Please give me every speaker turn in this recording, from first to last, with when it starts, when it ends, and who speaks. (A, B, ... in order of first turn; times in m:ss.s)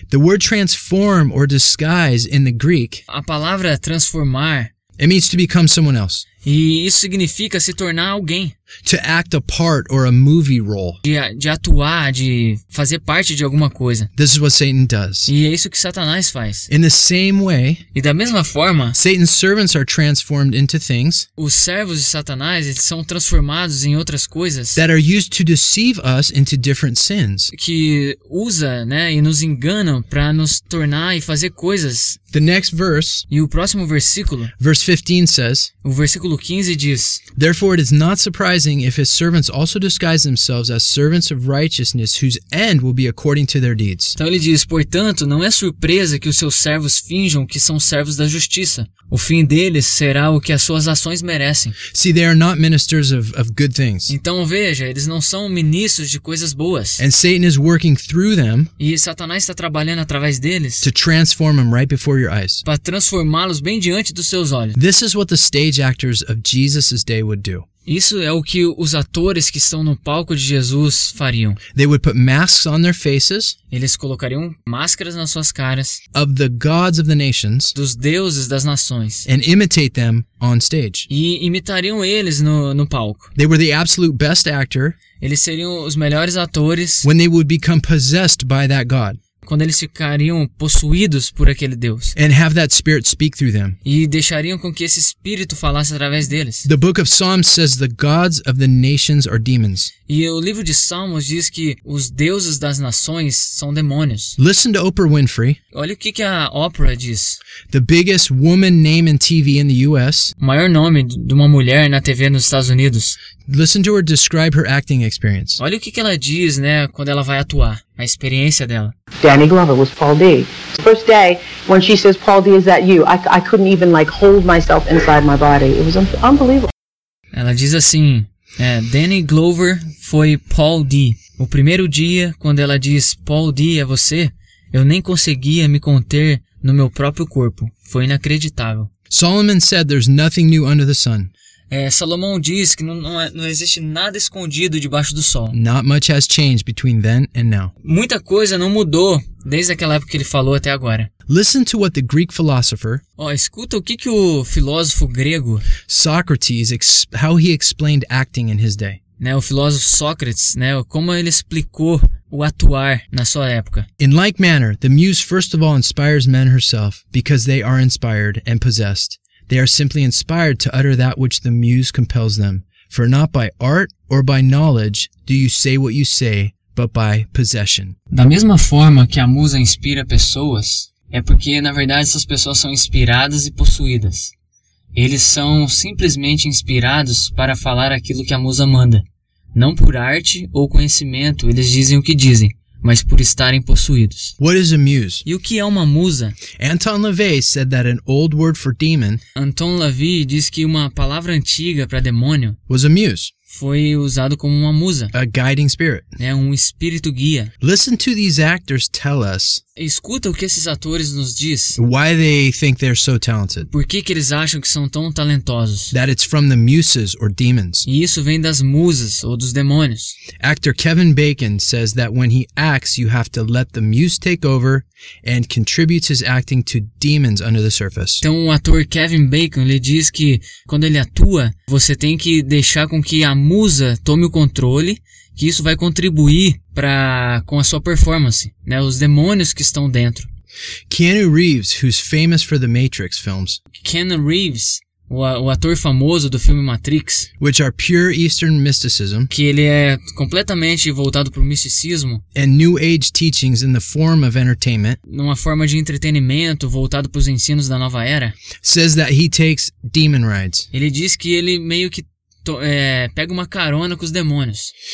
0:00.1-0:03.0 A
0:03.1-0:04.7 B
0:05.0-0:06.3 A
0:06.4-0:08.6 B
0:08.8-0:11.0 A
0:11.0-0:14.1 B
0:14.2-0:15.3 A
0:15.3-0:16.7 B
0:16.7-0:17.8 A
0:17.9-0:19.0 B
0:19.0-0:21.3 A
0:21.4-0:24.8 B
0:24.7-0:27.5 A
0:27.5-0:32.2 B
0:32.3-0:33.2 A
0:33.3-0:34.5 B
0:34.6-0:35.7 A
0:35.8-0:37.2 B
0:37.4-0:44.2 A
0:44.2-0:51.8 B
0:51.9-0:54.1 A
0:54.1-0:57.0 B
0:57.0-0:58.7 A
0:58.8-1:00.9 B
1:00.8-1:02.6 A
1:02.6-1:04.8 B
1:04.7-1:07.7 A
1:07.9-1:11.6 B
1:11.7-1:13.6 A
1:13.7-1:16.0 B
1:16.1-1:17.7 A
1:17.7-1:19.3 B
1:19.3-1:21.1 A
1:21.1-1:23.3 B
1:23.4-1:25.0 A
1:25.2-1:27.1 B
1:27.0-1:29.2 A
1:29.4-1:32.1 B
1:32.2-1:33.8 A
1:33.8-1:36.7 B
1:36.7-1:39.9 A
1:40.1-1:44.4 B
1:44.4-1:45.6 A
1:45.7-1:47.4 B
1:47.7-1:50.3 A
1:50.4-1:53.2 B
1:53.5-1:55.6 A
1:55.6-1:58.9 B
1:59.2-2:06.7 C
2:07.3-2:18.9 B
2:19.1-2:21.3 A
2:21.7-2:25.6 B
2:25.5-2:27.7 A
2:27.8-2:31.1 B
2:31.3-2:33.0 A
2:33.2-2:35.7 B
2:35.9-2:39.0 A
2:39.2-2:43.9 B
2:44.0-2:58.0 A
2:58.1-3:04.3 B
3:05.0-3:14.3 B
3:14.4-3:15.2 A
3:15.2-3:16.4 B
3:16.6-3:19.2 A
3:19.3-3:22.6 B
3:22.7-3:23.3 A
3:23.5-3:25.1 B
3:25.1-3:26.1 A
3:26.2-3:27.5 B
3:27.6-3:29.6 A
3:29.8-3:31.8 B
3:31.8-3:33.7 A
3:33.7-3:35.9 B
3:35.9-3:37.9 A
3:37.9-3:40.2 B
3:40.4-3:48.2 A
3:48.2-4:00.3 B
4:00.9-4:03.6 A
4:03.7-4:07.3 B
4:07.4-4:09.3 A
4:09.3-4:12.2 B
4:12.3-4:15.0 A
4:15.0-4:18.4 B
4:18.6-4:20.7 A
4:20.7-4:24.7 B